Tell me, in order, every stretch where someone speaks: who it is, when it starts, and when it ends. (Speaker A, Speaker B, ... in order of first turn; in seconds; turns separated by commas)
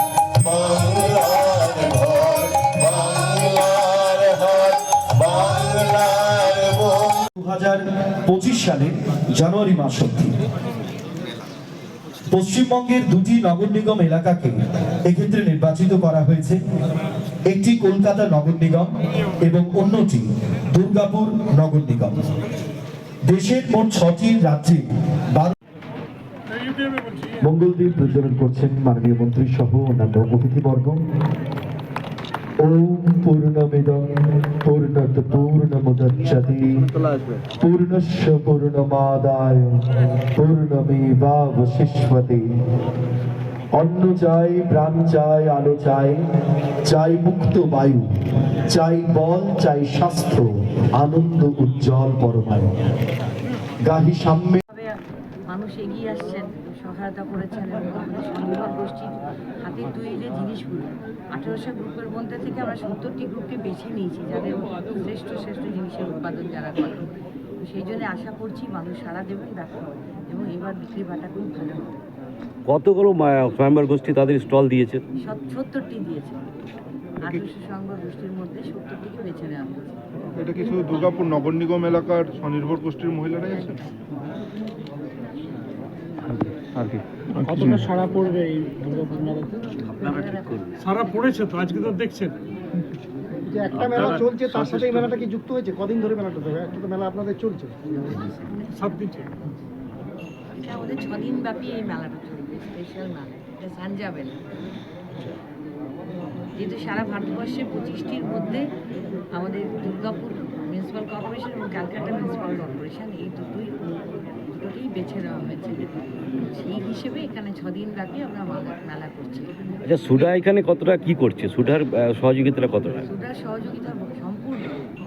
Speaker A: 0.4-10.3, Speaker A: 12.3-14.5, Speaker A: 15.1-16.6, Speaker A: 17.5-18.9, Speaker A: 19.4-22.2, Speaker A: 23.3-25.5, Speaker A: 27.4-31.0, Speaker A: 32.6-34.0, Speaker A: 34.6-36.8, Speaker B: 36.3-37.0, Speaker A: 37.6-39.8, Speaker A: 40.3-42.5, Speaker A: 43.8-46.2, Speaker A: 46.9-48.1, Speaker A: 48.7-50.4, Speaker A: 51.0-52.7, Speaker A: 53.9-54.6, Speaker C: 55.5-67.1, Speaker C: 67.6-72.0, Speaker B: 72.7-75.0, Speaker C: 75.2-76.5, Speaker C: 77.2-79.9, Speaker D: 80.3-83.7, Speaker C: 83.4-83.9, Speaker B: 86.6-87.0, Speaker E: 87.4-89.6, Speaker C: 87.8-91.6, Speaker B: 89.8-90.8, Speaker F: 90.8-92.3, Speaker E: 93.5-97.8, Speaker B: 93.8-95.0, Speaker F: 94.0-94.3, Speaker C: 97.9-99.4, Speaker F: 98.8-99.1, Speaker C: 100.5-104.4, Speaker C: 106.6-108.7, Speaker C: 109.3-115.8, Speaker C: 116.4-119.5, Speaker B: 119.8-123.0, Speaker C: 123.0-124.8